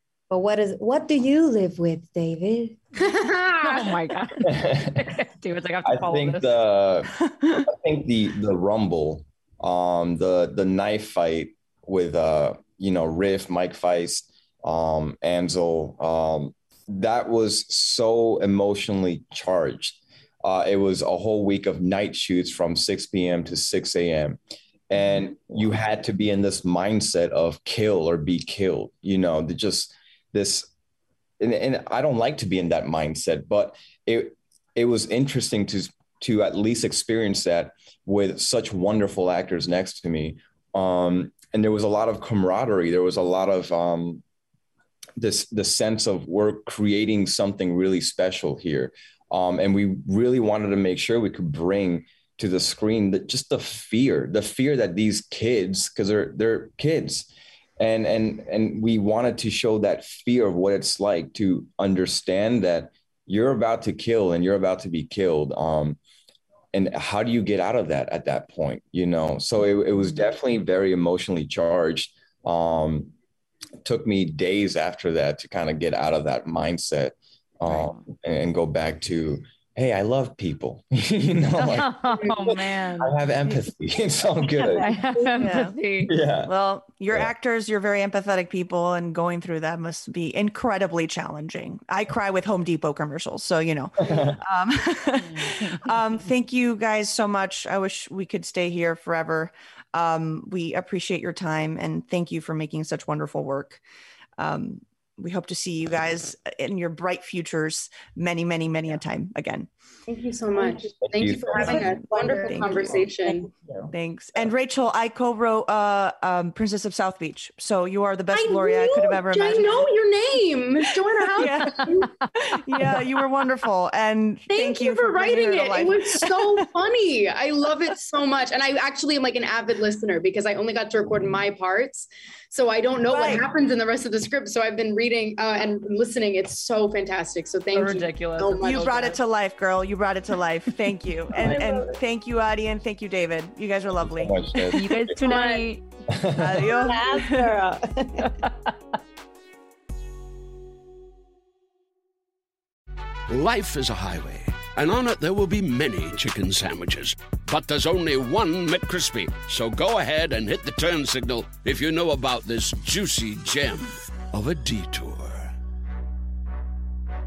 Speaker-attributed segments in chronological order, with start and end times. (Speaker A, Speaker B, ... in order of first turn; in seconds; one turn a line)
Speaker A: 0.3-2.8
Speaker B: 3.0-3.8
Speaker C: 3.6-6.5
Speaker D: 4.4-5.0
Speaker D: 5.8-7.1
Speaker E: 7.2-7.7
Speaker D: 7.7-30.7
Speaker D: 31.4-44.2
Speaker D: 45.2-66.0
Speaker D: 66.7-73.1
Speaker D: 73.8-84.9
Speaker E: 77.7-78.0
Speaker C: 81.6-83.2
Speaker A: 84.6-85.6
Speaker C: 84.8-86.1
Speaker E: 85.4-85.8
Speaker D: 86.0-86.5
Speaker E: 86.5-103.8
Speaker D: 94.0-94.4
Speaker C: 95.2-95.9
Speaker E: 104.4-109.7
Speaker B: 110.1-113.5
Speaker A: 110.6-113.5
Speaker D: 111.0-111.8
Speaker E: 111.7-113.0
Speaker E: 113.9-119.9
Speaker B: 118.3-122.1
Speaker E: 121.3-126.7
Speaker C: 121.4-122.3
Speaker B: 124.5-138.9
Speaker E: 133.1-133.5
Speaker C: 137.7-139.2
Speaker E: 138.4-144.4
Speaker A: 141.4-141.9
Speaker D: 144.2-145.2
Speaker C: 144.7-145.8
Speaker A: 145.2-145.7
Speaker D: 146.1-146.5
Speaker E: 146.4-147.6
Speaker A: 146.7-148.4
Speaker C: 148.4-148.7
Speaker F: 153.3-165.5